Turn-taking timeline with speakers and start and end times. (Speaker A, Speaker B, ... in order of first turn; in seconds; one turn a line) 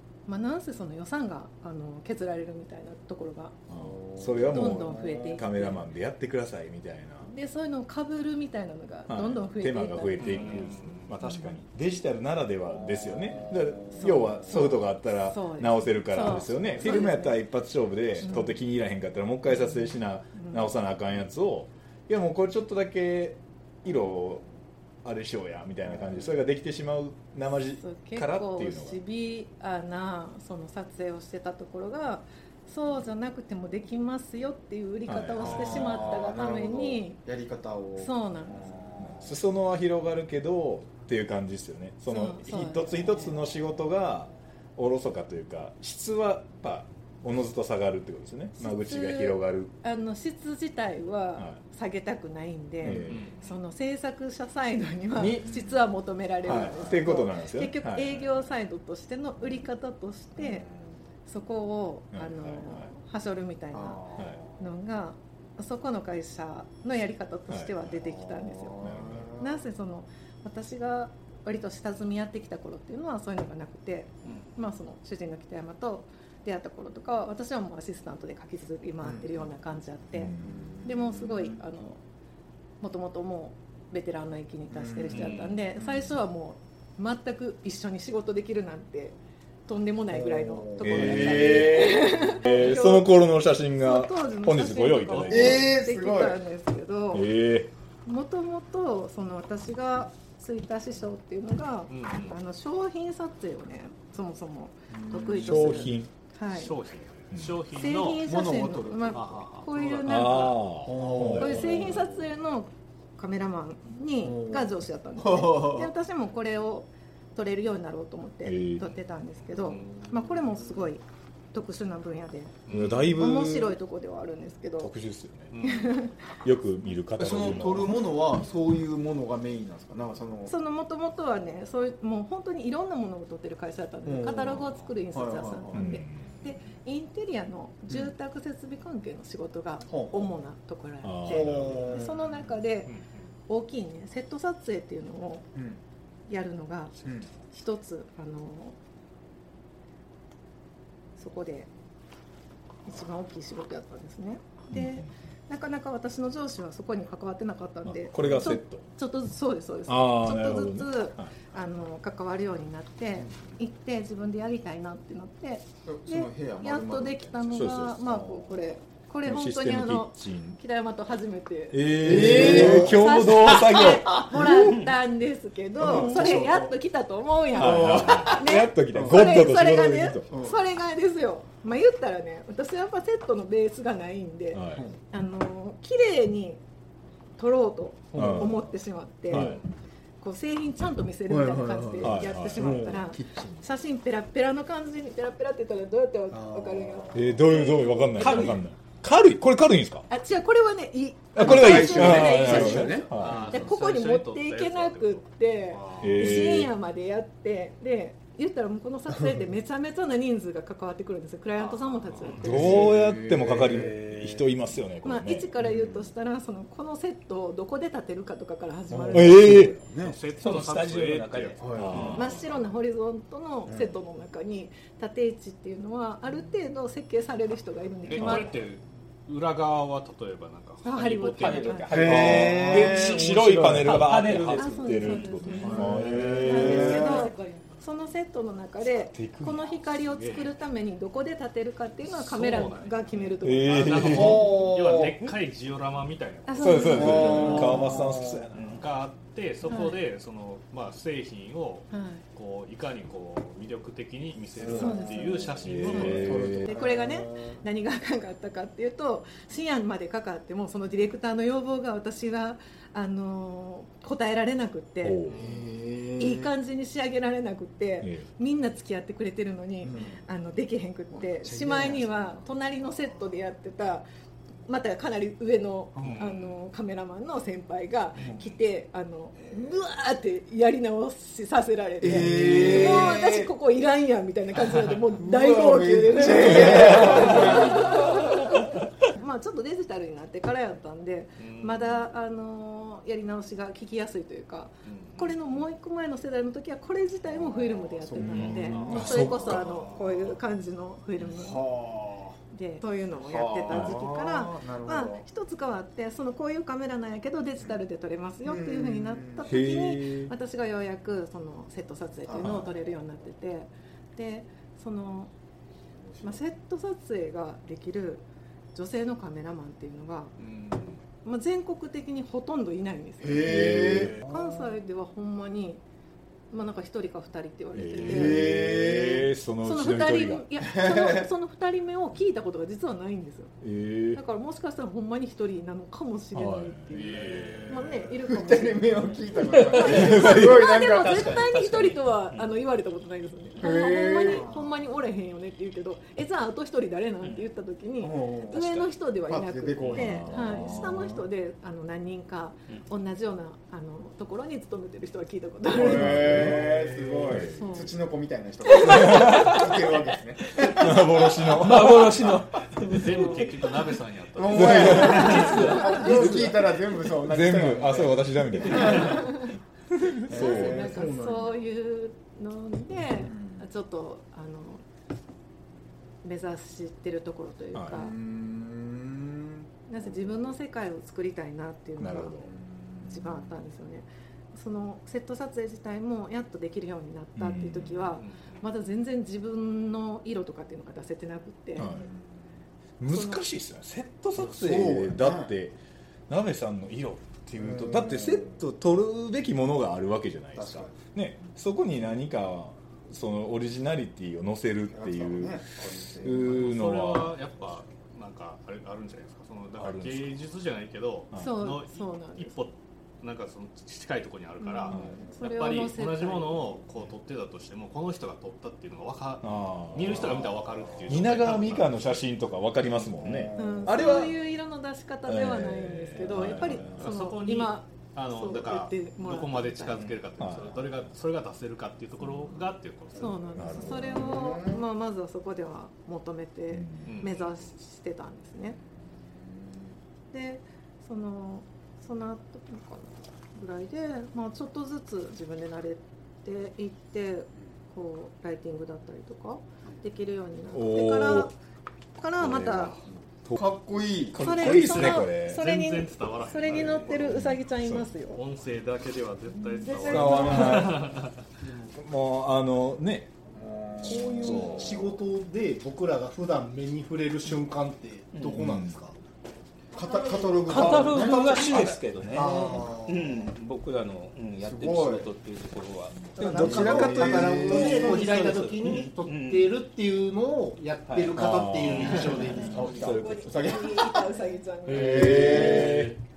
Speaker A: 0.3-3.5
Speaker B: 3.7-7.3
Speaker C: 3.7-5.4
Speaker A: 4.4-5.8
Speaker A: 7.2-10.6
Speaker B: 9.1-24.4
Speaker D: 10.2-11.1
Speaker A: 11.2-11.5
Speaker C: 12.8-14.7
Speaker A: 13.9-14.6
Speaker A: 15.2-17.4
Speaker C: 16.6-17.1
Speaker A: 18.2-18.6
Speaker A: 19.5-20.7
Speaker B: 25.0-29.0
Speaker C: 25.9-26.3
Speaker A: 27.8-37.2
Speaker B: 35.1-36.3
Speaker C: 35.4-39.3
Speaker A: 38.0-38.7
Speaker B: 39.0-49.7
Speaker A: 42.1-43.3
Speaker A: 48.6-60.7
Speaker B: 52.8-53.2
Speaker D: 53.1-53.6
Speaker B: 55.1-55.5
Speaker B: 56.4-58.4
Speaker C: 60.4-61.0
Speaker A: 61.2-68.8
Speaker B: 62.1-62.9
Speaker C: 63.7-64.7
Speaker B: 67.5-67.7
Speaker C: 67.9-69.6
Speaker B: 68.8-69.3
Speaker A: 69.4-82.0
Speaker D: 74.2-74.5
Speaker C: 79.0-79.5
Speaker B: 80.1-80.7
Speaker C: 80.4-81.6
Speaker A: 82.8-89.2
Speaker C: 84.7-85.4
Speaker D: 85.1-85.6
Speaker A: 89.7-93.2
Speaker C: 90.1-91.9
Speaker B: 90.8-95.7
Speaker A: 93.7-97.3
Speaker C: 95.3-96.4
Speaker B: 97.1-97.7
Speaker A: 98.0-106.7
Speaker D: 101.9-102.4
Speaker C: 104.9-105.8
Speaker B: 105.2-106.1
Speaker D: 106.5-108.3
Speaker B: 107.3-107.6
Speaker A: 107.7-110.7
Speaker C: 108.2-109.4
Speaker D: 109.1-110.4
Speaker B: 110.0-111.8
Speaker C: 110.8-112.0
Speaker A: 111.3-122.5
Speaker D: 111.7-112.1
Speaker C: 114.2-115.9
Speaker B: 118.4-118.9
Speaker D: 119.5-120.1
Speaker D: 122.7-123.1
Speaker B: 122.7-123.8
Speaker A: 123.0-124.9
Speaker B: 124.8-125.5
Speaker D: 125.5-125.9
Speaker A: 125.6-126.2
Speaker B: 126.4-128.0
Speaker C: 127.2-130.5
Speaker A: 130.5-142.9
Speaker C: 134.1-135.9
Speaker B: 135.7-136.5
Speaker C: 139.9-140.3
Speaker B: 141.0-142.1
Speaker C: 141.2-142.4
Speaker D: 142.8-143.3
Speaker A: 143.5-145.5
Speaker C: 145.5-145.8
Speaker A: 146.3-148.8
Speaker A: 151.2-151.7
Speaker A: 152.8-186.6
Speaker B: 154.7-155.1
Speaker B: 157.8-158.8
Speaker B: 159.9-161.3
Speaker C: 165.8-168.4
Speaker B: 167.5-168.2
Speaker B: 169.2-170.6
Speaker B: 171.7-174.5
Speaker C: 172.0-173.0
Speaker C: 174.2-174.7
Speaker C: 175.8-176.8
Speaker B: 175.8-176.5
Speaker B: 177.6-180.3
Speaker C: 177.6-178.4
Speaker C: 180.3-180.6
Speaker B: 184.5-184.8
Speaker A: 187.4-189.6
Speaker C: 188.1-188.5
Speaker B: 188.1-188.6
Speaker B: 189.3-189.6
Speaker A: 190.2-198.5
Speaker C: 191.3-193.6
Speaker B: 192.0-193.0
Speaker C: 196.3-197.8
Speaker B: 197.1-200.1
Speaker E: 198.2-198.6
Speaker A: 200.1-212.8
Speaker B: 201.3-203.5
Speaker C: 201.4-203.6
Speaker D: 203.2-206.4
Speaker B: 206.0-206.7
Speaker D: 211.6-212.5
Speaker C: 212.4-214.4
Speaker B: 212.4-215.5
Speaker A: 215.0-219.8
Speaker C: 215.6-216.1
Speaker C: 218.9-220.2
Speaker B: 219.1-219.8
Speaker D: 220.0-222.2
Speaker E: 220.3-222.2
Speaker C: 221.6-222.2
Speaker B: 221.8-222.3
Speaker A: 222.1-228.5
Speaker C: 223.7-224.0
Speaker D: 228.1-231.9
Speaker B: 228.1-228.5
Speaker A: 230.8-232.3
Speaker E: 231.1-235.2
Speaker C: 231.9-233.4
Speaker B: 232.0-237.3
Speaker A: 234.5-244.4
Speaker C: 235.6-237.3
Speaker B: 239.1-239.7
Speaker D: 239.9-240.5
Speaker D: 242.1-247.8
Speaker B: 243.4-244.5
Speaker C: 244.0-245.2
Speaker A: 246.5-247.9
Speaker B: 246.6-248.9
Speaker C: 246.8-248.5
Speaker D: 248.7-256.6
Speaker A: 249.6-250.0
Speaker A: 251.9-252.2
Speaker C: 254.5-257.6
Speaker A: 254.7-265.2
Speaker B: 255.6-256.7
Speaker B: 265.0-265.5
Speaker C: 265.3-266.5
Speaker A: 266.2-274.1
Speaker B: 268.0-268.3
Speaker C: 269.8-270.2
Speaker C: 271.1-272.5
Speaker A: 274.7-301.6
Speaker C: 275.9-276.3
Speaker D: 276.0-276.3
Speaker C: 278.2-278.4
Speaker C: 282.0-283.5
Speaker D: 284.6-285.0
Speaker C: 285.2-288.4
Speaker D: 291.4-291.9
Speaker D: 294.8-295.4
Speaker C: 297.3-299.2
Speaker B: 298.2-299.7
Speaker D: 298.4-300.4
Speaker C: 301.2-302.4
Speaker A: 302.5-315.3
Speaker C: 303.2-305.2
Speaker B: 303.7-304.0
Speaker C: 308.4-309.5
Speaker B: 309.4-310.3
Speaker C: 312.3-312.6
Speaker B: 312.3-312.7
Speaker C: 316.0-316.4
Speaker A: 316.2-320.3
Speaker D: 320.4-321.0
Speaker A: 321.2-325.8
Speaker C: 323.2-324.7
Speaker B: 323.4-324.2
Speaker A: 326.5-328.4
Speaker B: 327.7-330.6
Speaker C: 328.0-329.3
Speaker A: 329.6-333.5
Speaker C: 330.7-331.3
Speaker B: 333.6-334.2
Speaker A: 334.1-356.5
Speaker B: 336.3-337.0
Speaker D: 336.9-337.9
Speaker C: 337.2-341.3
Speaker E: 339.6-340.3
Speaker B: 339.8-340.6
Speaker E: 340.8-342.0
Speaker C: 343.6-344.7
Speaker E: 347.2-347.5
Speaker C: 348.0-348.6
Speaker E: 348.5-348.9
Speaker C: 349.3-350.8
Speaker B: 349.8-351.2
Speaker C: 355.7-362.2
Speaker B: 355.8-356.6
Speaker B: 357.3-357.6
Speaker A: 357.4-357.9
Speaker A: 358.6-359.8
Speaker B: 358.8-359.6
Speaker B: 360.8-362.3
Speaker E: 361.5-363.2
Speaker A: 362.8-363.5
Speaker D: 362.9-365.9
Speaker C: 363.9-369.2
Speaker B: 364.5-365.7
Speaker A: 364.9-366.1
Speaker E: 365.4-366.6
Speaker B: 367.2-369.4
Speaker D: 368.7-369.1
Speaker A: 368.9-369.5
Speaker B: 370.0-371.0
Speaker A: 370.2-374.8
Speaker C: 370.2-371.6
Speaker C: 372.9-373.6
Speaker A: 376.2-378.1
Speaker B: 377.7-378.1
Speaker C: 377.9-380.5
Speaker A: 379.9-382.4
Speaker B: 382.0-382.5
Speaker C: 382.4-383.6
Speaker A: 383.0-391.9
Speaker B: 387.4-388.2
Speaker D: 388.1-388.7
Speaker B: 391.8-392.1
Speaker C: 391.8-392.5
Speaker B: 393.0-395.8
Speaker A: 393.1-393.4
Speaker C: 394.4-395.5
Speaker B: 396.3-405.6
Speaker C: 397.6-398.6
Speaker C: 400.5-401.0
Speaker C: 404.9-406.7
Speaker B: 406.2-407.3
Speaker D: 406.3-422.0
Speaker B: 409.8-410.3
Speaker A: 411.3-412.5
Speaker A: 414.6-416.7
Speaker B: 414.9-415.2
Speaker C: 414.9-415.4
Speaker B: 419.4-420.5
Speaker C: 420.3-420.5
Speaker B: 421.1-424.3
Speaker C: 423.0-424.3
Speaker A: 423.6-430.1
Speaker B: 425.2-427.1
Speaker D: 426.9-433.6
Speaker B: 430.4-431.0
Speaker A: 433.1-438.8
Speaker C: 433.2-434.8
Speaker B: 433.6-434.5
Speaker B: 436.7-437.1
Speaker D: 437.0-437.7
Speaker C: 439.4-439.8
Speaker A: 440.3-451.6
Speaker B: 450.7-451.5
Speaker A: 452.2-453.0
Speaker B: 452.4-453.7
Speaker C: 453.1-454.4
Speaker B: 454.3-455.6
Speaker A: 454.4-458.4
Speaker D: 454.5-457.5
Speaker B: 457.3-458.1
Speaker D: 458.3-461.4
Speaker A: 459.8-460.2
Speaker B: 460.0-461.1
Speaker C: 460.2-460.7
Speaker C: 461.6-461.9
Speaker B: 461.9-463.3
Speaker C: 463.5-465.2
Speaker F: 464.0-469.1
Speaker B: 464.4-464.9
Speaker E: 468.3-468.6
Speaker B: 468.5-468.9
Speaker C: 469.9-473.0
Speaker E: 470.7-479.7
Speaker F: 470.9-471.5
Speaker B: 471.6-472.0
Speaker F: 472.3-473.3
Speaker C: 474.6-475.3
Speaker F: 476.3-483.5
Speaker C: 476.5-478.2
Speaker B: 476.5-477.9
Speaker E: 481.0-481.5
Speaker B: 481.3-483.8
Speaker A: 482.7-486.0
Speaker C: 482.7-486.1
Speaker B: 484.9-486.2